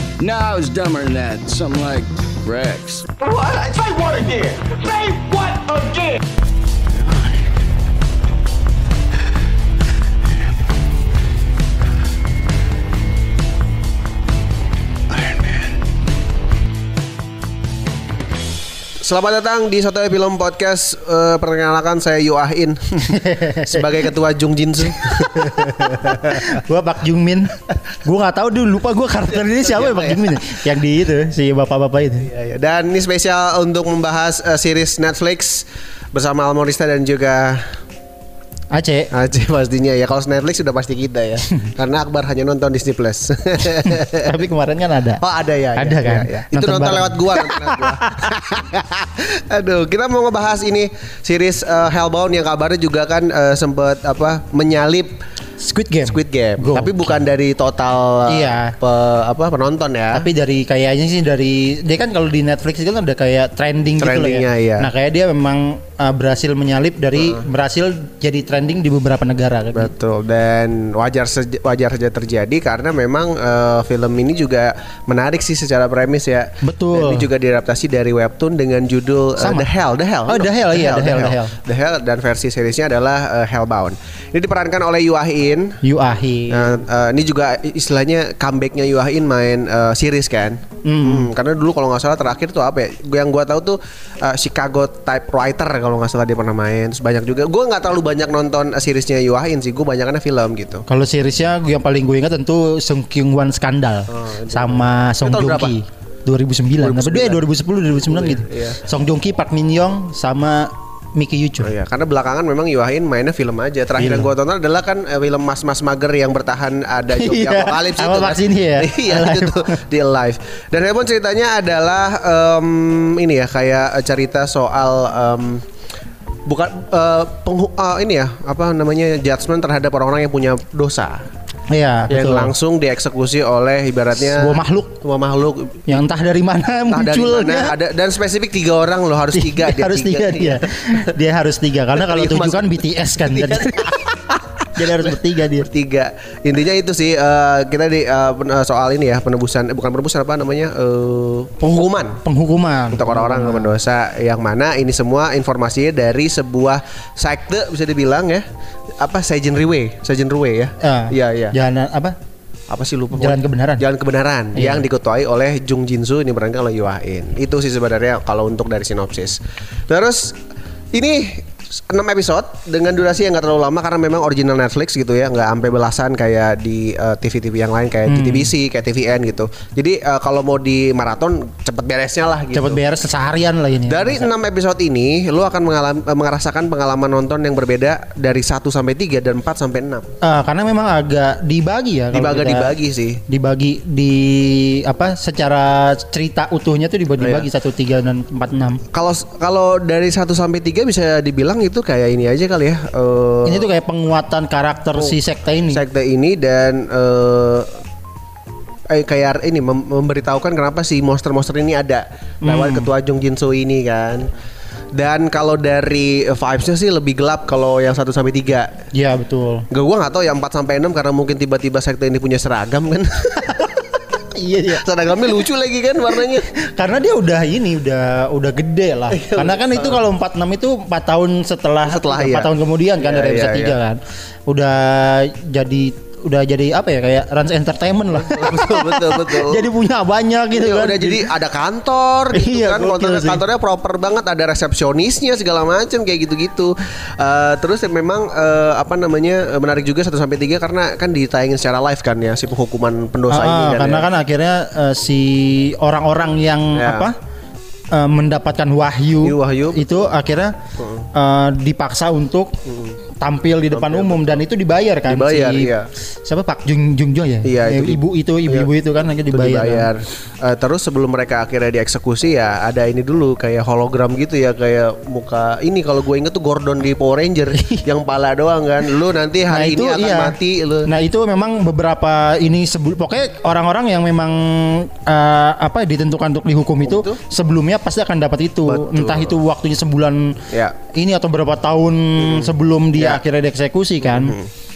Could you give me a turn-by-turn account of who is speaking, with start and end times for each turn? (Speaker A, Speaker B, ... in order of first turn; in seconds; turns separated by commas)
Speaker A: 0.2-3.1, Speaker B: 3.2-6.2, Speaker C: 19.0-23.1, Speaker D: 23.1-23.9, Speaker C: 23.7-26.5, Speaker D: 24.9-32.3, Speaker C: 29.3-30.5, Speaker C: 32.2-37.6, Speaker D: 38.7-39.1, Speaker C: 39.1-44.3, Speaker D: 43.9-45.2, Speaker C: 45.2-55.1, Speaker D: 45.8-48.3, Speaker D: 55.6-57.2, Speaker C: 56.0-60.3, Speaker D: 58.3-58.7, Speaker D: 60.1-69.9, Speaker C: 64.0-64.9, Speaker C: 67.2-67.5, Speaker C: 69.7-85.8, Speaker D: 76.6-77.3, Speaker D: 79.4-79.7, Speaker D: 80.3-81.5, Speaker D: 85.8-86.8, Speaker C: 86.5-100.8, Speaker D: 90.8-91.3, Speaker D: 100.9-111.7, Speaker C: 104.1-105.8, Speaker C: 106.8-108.8, Speaker C: 111.6-125.6, Speaker D: 114.0-114.3, Speaker D: 117.1-119.7, Speaker C: 126.5-131.2, Speaker D: 131.7-132.5, Speaker C: 132.1-136.0, Speaker D: 134.2-135.0, Speaker D: 135.9-137.7, Speaker C: 136.9-140.7, Speaker D: 139.3-143.9, Speaker C: 141.9-152.2, Speaker D: 144.8-145.7, Speaker D: 152.2-153.8, Speaker C: 152.9-158.4, Speaker C: 159.0-161.5, Speaker D: 160.8-162.1, Speaker C: 162.7-169.4, Speaker D: 163.1-163.8, Speaker D: 164.5-164.8, Speaker C: 169.9-170.4, Speaker C: 170.9-182.8, Speaker D: 178.1-178.5, Speaker D: 182.5-184.3, Speaker C: 183.9-190.1, Speaker D: 190.2-198.8, Speaker C: 192.1-193.2, Speaker C: 197.2-197.5, Speaker C: 198.9-203.7, Speaker D: 203.4-205.8, Speaker C: 205.7-207.7, Speaker C: 208.9-214.3, Speaker D: 212.4-212.9, Speaker C: 214.9-218.7, Speaker D: 218.9-219.7, Speaker C: 219.7-223.7, Speaker D: 224.3-224.8, Speaker C: 224.7-226.5, Speaker D: 226.6-241.3, Speaker C: 229.1-230.0, Speaker C: 231.8-233.8, Speaker C: 238.1-239.7, Speaker C: 240.5-254.1, Speaker D: 242.3-243.4, Speaker D: 253.3-257.1, Speaker C: 256.7-257.1, Speaker D: 257.9-260.5, Speaker C: 259.2-260.1, Speaker C: 260.8-261.1, Speaker D: 261.1-262.6, Speaker C: 262.6-263.0, Speaker D: 263.2-265.7, Speaker C: 263.7-264.4, Speaker C: 265.1-265.9, Speaker D: 266.2-269.9, Speaker C: 267.4-268.7, Speaker C: 269.3-280.9, Speaker D: 279.5-280.4, Speaker D: 280.9-290.4, Speaker C: 286.8-287.2, Speaker C: 288.6-289.4, Speaker D: 290.9-294.3, Speaker C: 292.2-293.2, Speaker C: 294.0-294.5